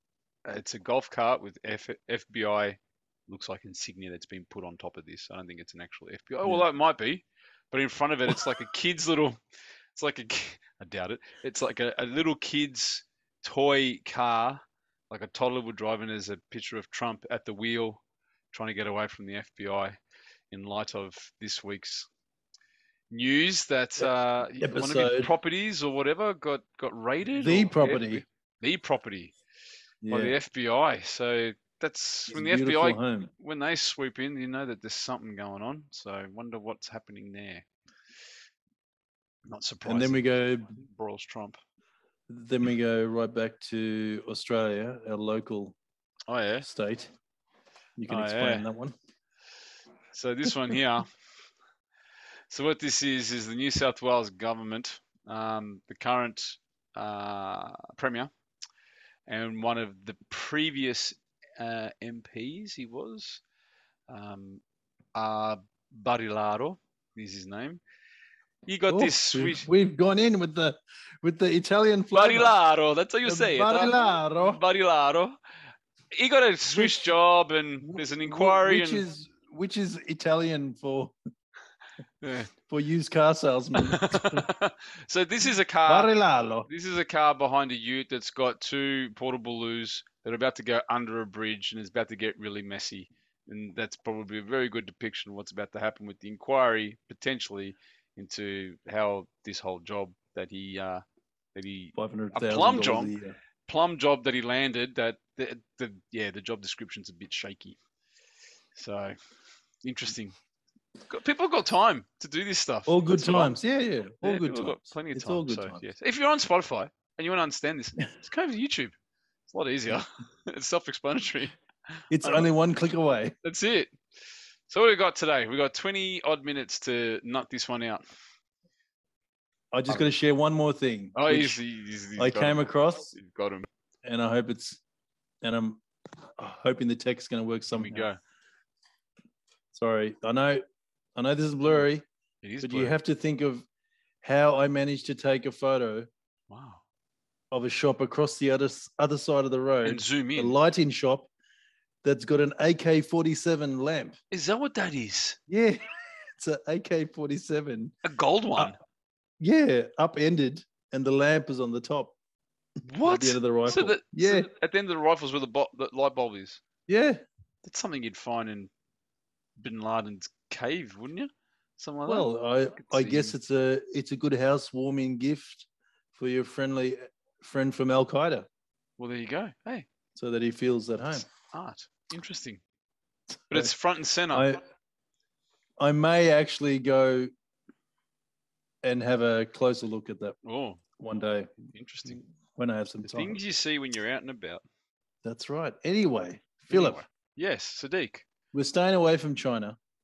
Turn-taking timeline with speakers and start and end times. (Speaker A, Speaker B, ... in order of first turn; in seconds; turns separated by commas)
Speaker A: 0.4-9.4, Speaker A: 9.9-18.0, Speaker A: 18.5-20.0, Speaker A: 20.5-22.1, Speaker A: 23.1-29.3, Speaker B: 24.6-25.3, Speaker B: 27.3-28.2, Speaker B: 30.0-30.4, Speaker A: 30.1-37.6, Speaker B: 32.3-33.3, Speaker A: 39.5-40.2, Speaker B: 39.8-40.8, Speaker A: 40.8-41.6, Speaker B: 42.3-45.8, Speaker A: 46.3-46.6, Speaker B: 46.6-47.1, Speaker B: 48.0-48.9, Speaker A: 48.1-48.6, Speaker A: 50.1-51.1, Speaker A: 52.5-58.3, Speaker A: 59.2-63.4, Speaker A: 64.1-64.6, Speaker A: 65.1-67.8, Speaker A: 68.7-69.7, Speaker B: 68.9-72.5, Speaker A: 72.1-75.4, Speaker B: 73.2-74.6, Speaker A: 76.1-79.0, Speaker B: 76.7-77.1, Speaker B: 77.8-81.1, Speaker A: 82.2-82.5, Speaker B: 82.7-84.5, Speaker A: 83.8-86.1, Speaker B: 85.8-86.7, Speaker A: 86.7-103.1, Speaker B: 101.9-103.3, Speaker A: 103.7-107.8, Speaker A: 108.7-109.2, Speaker A: 109.8-110.3, Speaker A: 111.1-113.6, Speaker B: 112.8-115.8, Speaker A: 114.2-118.9, Speaker A: 119.5-121.5, Speaker B: 122.1-123.3, Speaker A: 122.2-122.5, Speaker A: 123.4-124.0, Speaker A: 124.7-128.0, Speaker B: 129.7-131.6, Speaker A: 129.9-130.1, Speaker A: 131.1-133.7, Speaker B: 132.2-133.1, Speaker B: 134.0-134.8, Speaker B: 135.4-135.8, Speaker B: 136.4-138.1, Speaker A: 137.7-138.2, Speaker B: 139.7-140.6, Speaker B: 141.2-142.0, Speaker A: 142.4-143.0, Speaker B: 142.6-143.6, Speaker B: 144.2-146.1, Speaker A: 146.5-146.8, Speaker B: 147.5-151.3, Speaker A: 149.8-150.6, Speaker B: 152.0-154.2, Speaker A: 154.3-155.4, Speaker B: 155.5-157.9, Speaker A: 158.0-158.8, Speaker B: 159.4-162.1, Speaker A: 162.8-166.6, Speaker B: 163.0-164.5, Speaker B: 166.9-167.2, Speaker A: 167.6-168.7, Speaker A: 169.6-173.3, Speaker B: 172.1-178.5, Speaker A: 179.0-179.9, Speaker B: 180.1-181.3, Speaker A: 181.5-182.6, Speaker A: 183.5-184.5, Speaker B: 184.3-184.6, Speaker B: 185.8-187.3, Speaker B: 188.8-190.4, Speaker A: 190.4-190.8, Speaker B: 191.0-191.5, Speaker A: 191.6-192.2, Speaker B: 192.1-193.4, Speaker A: 193.0-194.6, Speaker B: 195.2-197.0, Speaker A: 196.7-198.2, Speaker B: 198.5-199.8